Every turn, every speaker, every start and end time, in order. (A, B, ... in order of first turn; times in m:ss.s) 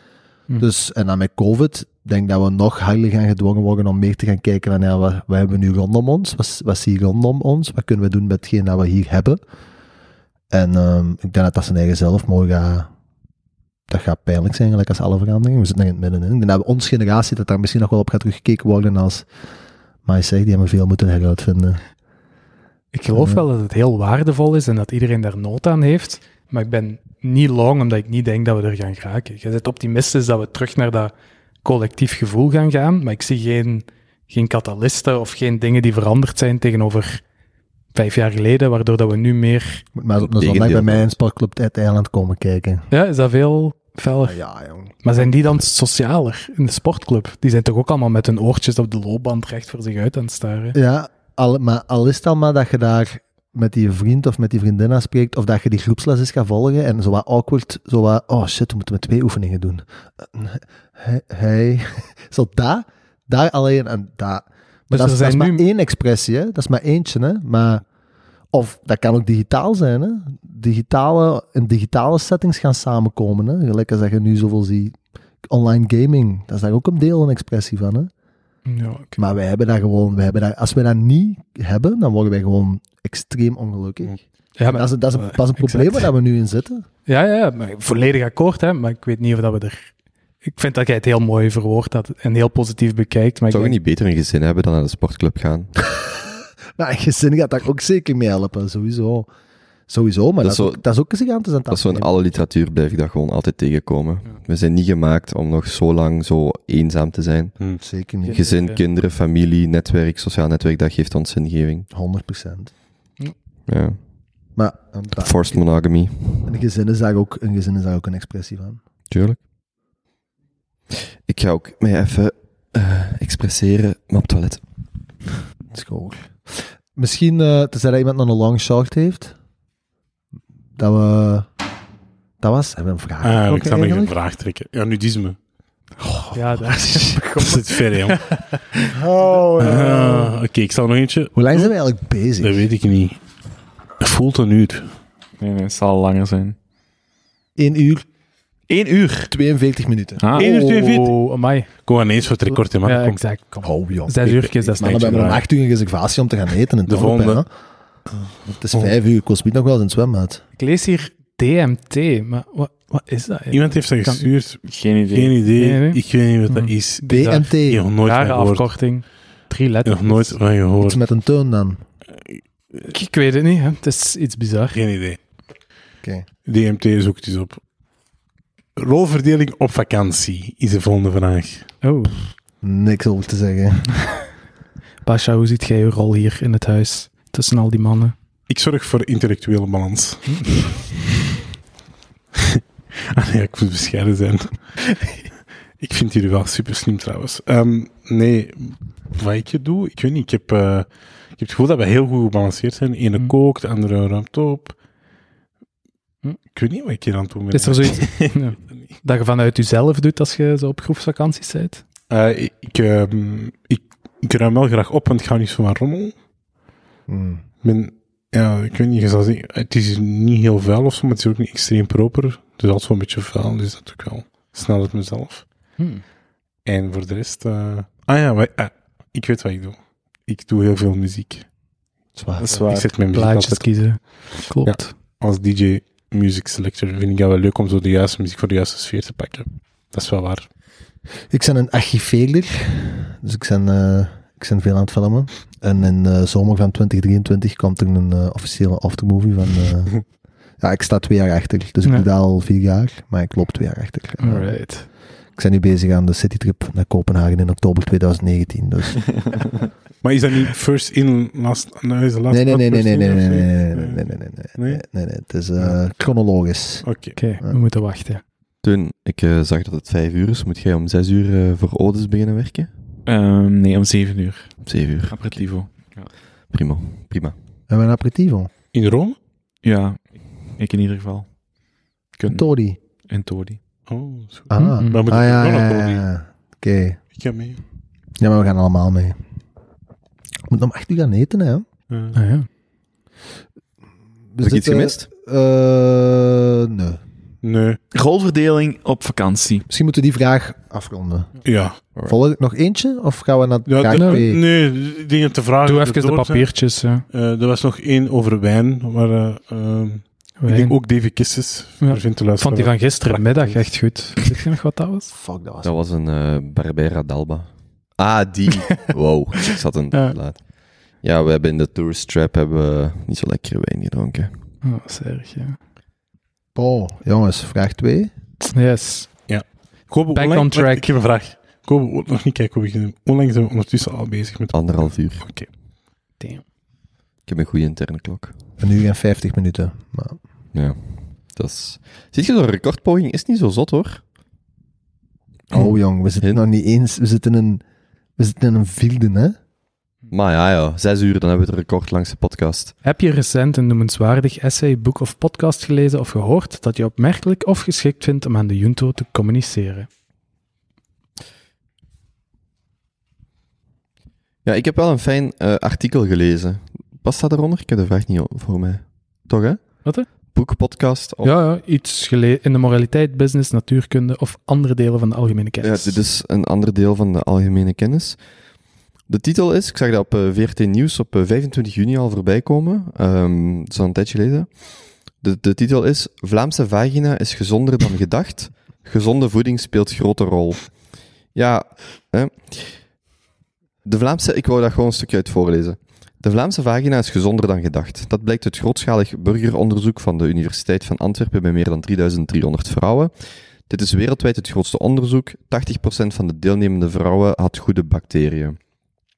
0:00.6-0:09.4 A
0:10.5-0:12.9 A
0:13.9-0:19.3 A
0:20.0-0:21.9 A
0:22.9-0:37.2 B
0:23.1-0:23.4 A
0:37.9-0:39.9 B
0:40.0-0:42.9 A
0:40.2-0:41.2 C
0:42.9-0:44.4 B
0:44.2-0:45.3 A
0:45.0-0:50.8 B
0:50.7-1:07.8 A
1:04.9-1:05.7 B
1:08.5-1:18.1 A
1:18.7-1:19.2 B
1:19.2-1:26.9 A
1:24.6-1:26.1 B
1:27.1-1:33.8 B
1:33.5-1:35.7 C
1:36.8-1:39.3 A
1:39.9-1:42.1 A
1:40.4-1:40.8 C
1:41.7-1:51.9 C
1:47.8-1:48.5 A
1:48.2-1:48.8 B
1:51.9-1:52.7 A
1:53.7-1:54.6 C
1:54.6-1:58.8 A
1:55.2-1:56.6 C
1:59.1-1:59.4 C
2:00.9-2:05.3 C
2:05.7-2:09.4 A
2:10.8-2:11.5 A
2:12.4-2:14.2 A
2:13.2-2:15.4 D
2:16.0-2:17.6 A
2:16.3-2:18.8 B
2:17.4-2:18.2 D
2:18.9-2:20.3 A
2:19.6-2:21.7 D
2:21.3-2:22.6 A
2:22.4-2:23.3 D
2:24.0-2:25.0 D
2:25.4-2:26.6 E
2:27.6-2:28.1 A
2:28.7-2:29.3 E
2:29.3-2:30.2 A
2:30.2-2:30.5 E
2:30.4-2:35.4 B
2:30.4-2:31.2 D
2:31.8-2:33.2 D
2:33.6-2:34.2 A
2:34.2-2:35.4 D
2:34.8-2:40.4 A
2:36.9-2:37.5 D
2:38.1-2:38.9 D
2:40.6-2:44.3 B
2:43.5-2:51.0 D
2:44.6-2:45.4 E
2:45.5-2:50.6 B
2:47.1-2:47.9 A
2:50.8-2:51.8 A
2:52.9-2:54.8 B
2:54.7-2:55.2 D
2:56.4-2:57.6 D
2:58.8-3:01.8 D
3:01.8-3:02.3 B
3:02.6-3:04.0 A
3:05.0-3:08.2 B
3:08.5-3:10.4 D
3:10.3-3:10.6 B
3:13.1-3:14.8 D
3:15.8-3:24.8 D
3:26.5-3:28.9 D
3:27.5-3:31.8 B
3:32.1-3:36.2 D
3:37.1-3:37.4 A
3:37.6-3:45.6 D
3:45.8-3:46.0 B
3:46.6-3:51.5 D
3:52.2-3:52.7 A
3:52.4-3:53.0 E
3:52.7-4:00.5 D
3:53.0-3:55.0 B
4:01.3-4:19.6 A
4:14.2-4:14.9 B
4:20.0-4:24.8 D
4:22.3-4:27.6 A
4:25.6-4:25.8 D
4:26.8-4:27.2 D
4:27.2-4:28.2 B
4:28.6-4:32.7 C
4:33.1-4:36.1 E
4:34.6-4:37.4 C
4:37.7-4:38.5 A
4:38.7-4:39.2 D
4:39.6-4:43.6 E
4:42.2-4:42.8 A
4:43.9-4:46.1 D
4:44.5-4:47.0 A
4:44.6-4:45.1 B
4:47.1-4:47.6 D
4:48.2-4:49.2 A
4:50.5-4:51.6 A
4:51.9-4:52.2 D
4:52.2-4:52.5 B
4:54.3-4:57.0 A
4:54.4-4:55.1 C
4:57.4-4:57.8 D
4:57.9-4:59.7 E
4:59.7-5:04.4 A
5:01.4-5:01.8 D
5:03.7-5:14.4 D
5:03.9-5:04.3 B
5:05.6-5:07.1 B
5:10.4-5:10.8 B
5:11.8-5:15.1 B
5:15.2-5:15.7 A
5:15.6-5:24.5 C
5:19.9-5:20.2 B
5:24.6-5:25.6 B
5:26.6-5:28.1 A
5:28.5-5:29.5 B
5:29.3-5:35.5 D
5:30.1-5:31.0 B
5:34.5-5:35.3 C
5:36.2-5:36.4 B
5:37.3-5:38.4 C
5:38.6-5:40.2 A
5:40.5-5:44.0 C
5:45.5-5:47.6 A
5:48.2-5:49.4 A
5:50.1-5:52.7 C
5:52.8-5:59.9 B
6:04.4-6:11.4 C
6:09.8-6:10.1 B
6:11.2-6:16.0 B
6:15.6-6:18.3 C
6:19.1-6:33.0 C
6:33.8-6:48.6 C